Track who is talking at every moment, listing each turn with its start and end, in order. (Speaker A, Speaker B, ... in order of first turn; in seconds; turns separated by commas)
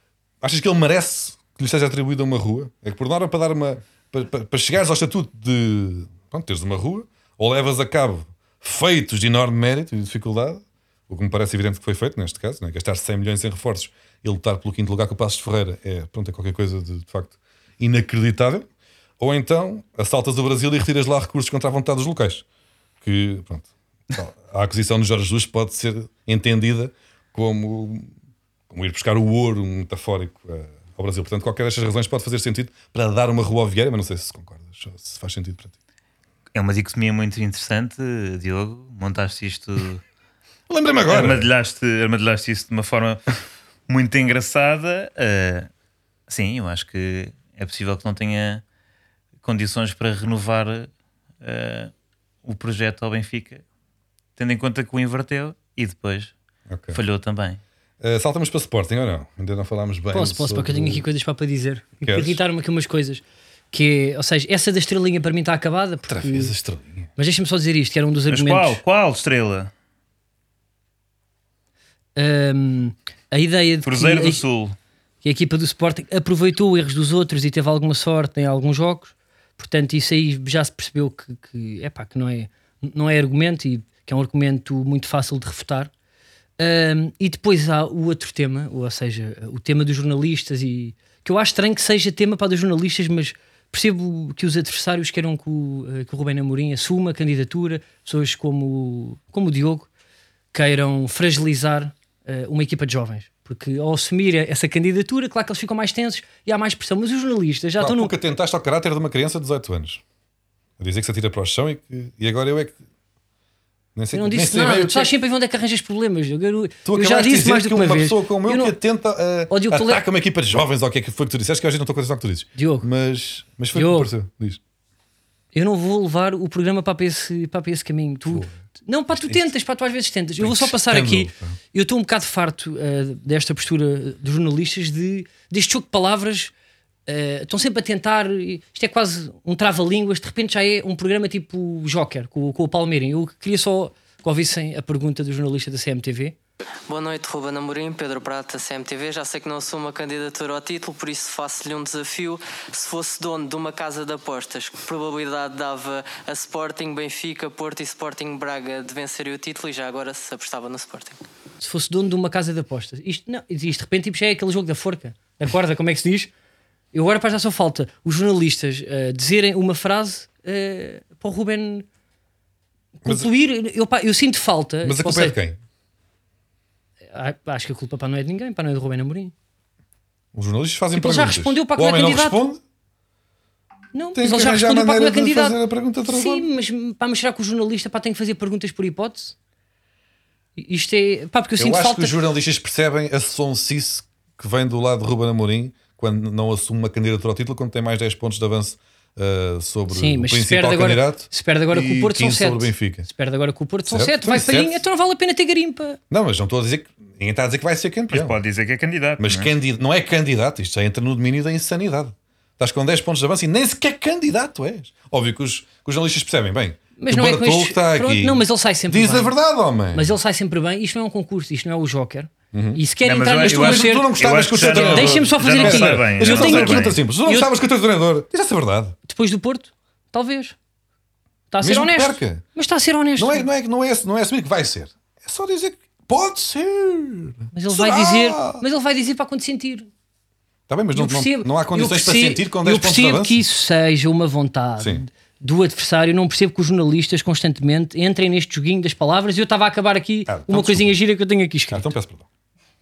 Speaker A: 0.4-18.7, Speaker A: 19.2-22.4, Speaker A: 23.0-28.1, Speaker A: 28.7-35.7, Speaker B: 36.5-40.0, Speaker A: 40.7-41.5, Speaker B: 41.1-43.3, Speaker B: 43.9-45.7, Speaker B: 46.3-48.6, Speaker B: 49.4-50.9, Speaker B: 51.4-51.9, Speaker B: 52.4-53.6, Speaker B: 54.4-56.3, Speaker A: 56.7-57.0, Speaker B: 56.9-57.6, Speaker A: 58.0-61.0, Speaker C: 60.1-66.5, Speaker A: 62.0-62.4, Speaker A: 66.1-67.1, Speaker C: 67.2-68.8, Speaker B: 68.3-69.7, Speaker C: 72.2-74.4, Speaker B: 73.8-74.8, Speaker C: 75.2-85.9, Speaker C: 86.6-99.9, Speaker C: 100.5-108.1, Speaker A: 107.8-110.0, Speaker A: 110.8-112.8, Speaker A: 113.9-115.1, Speaker C: 114.1-118.8, Speaker A: 116.8-124.6, Speaker C: 119.5-120.0, Speaker C: 122.5-122.9, Speaker C: 123.7-124.1, Speaker C: 125.5-136.5, Speaker A: 128.3-128.5, Speaker A: 129.1-129.5, Speaker A: 130.4-131.6, Speaker C: 137.1-146.3, Speaker D: 146.9-161.2, Speaker C: 161.6-166.3, Speaker C: 166.9-171.8, Speaker C: 173.0-175.3, Speaker A: 174.8-175.6, Speaker C: 177.1-179.3, Speaker A: 180.3-182.6, Speaker C: 180.9-182.4, Speaker C: 183.9-189.3, Speaker A: 184.1-186.4, Speaker C: 190.6-192.2, Speaker A: 191.6-203.1, Speaker C: 199.9-206.0, Speaker A: 203.8-204.8, Speaker A: 206.1-208.4, Speaker B: 208.1-209.5, Speaker A: 209.2-220.1, Speaker C: 217.0-219.3, Speaker C: 219.9-227.5, Speaker A: 222.5-222.8, Speaker B: 223.0-227.0, Speaker A: 223.4-229.0, Speaker C: 229.1-230.6, Speaker C: 231.5-233.5, Speaker A: 231.6-232.4, Speaker A: 233.2-238.6, Speaker C: 237.5-239.9, Speaker A: 240.7-243.4, Speaker C: 240.9-251.9, Speaker A: 244.8-245.0, Speaker A: 250.3-251.0, Speaker A: 251.7-252.3